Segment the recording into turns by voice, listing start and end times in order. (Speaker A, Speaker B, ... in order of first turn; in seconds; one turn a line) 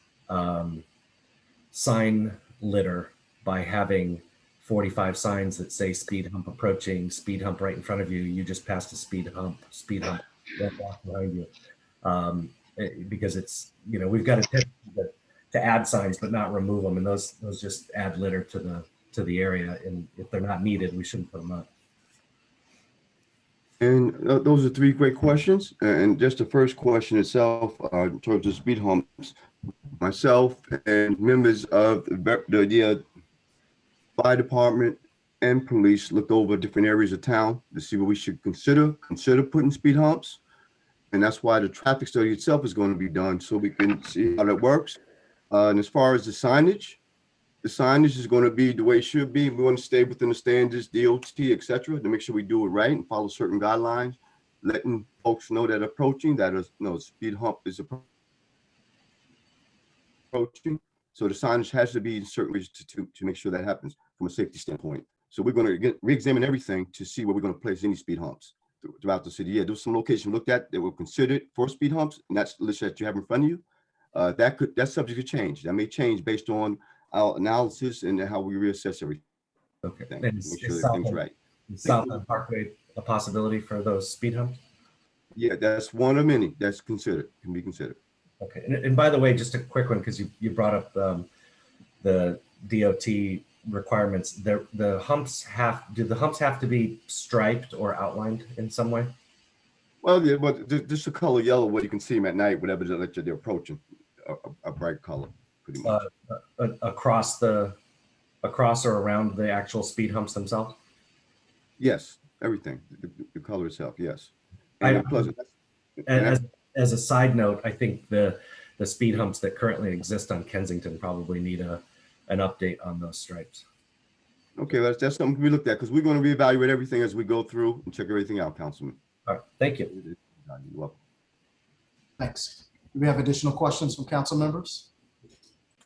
Speaker A: 0.3-0.8
Speaker A: 1.7-11.5
Speaker A: 12.0-21.7
Speaker B: 23.8-29.4
Speaker B: 30.0-33.0
Speaker B: 34.2-40.4
Speaker B: 41.1-45.0
Speaker B: 45.5-47.0
Speaker B: 47.6-58.0
Speaker B: 60.3-73.6
Speaker B: 74.1-79.2
Speaker A: 79.8-84.6
Speaker B: 80.0-81.3
Speaker B: 85.3-88.0
Speaker A: 88.4-91.3
Speaker A: 92.0-99.1
Speaker B: 100.0-106.0
Speaker A: 105.8-107.8
Speaker A: 108.4-110.8
Speaker B: 111.8-115.5
Speaker A: 114.8-115.3
Speaker A: 116.1-123.6
Speaker B: 116.1-116.4
Speaker B: 124.6-129.0
Speaker A: 129.3-129.9
Speaker B: 129.9-130.9
Speaker C: 132.2-134.9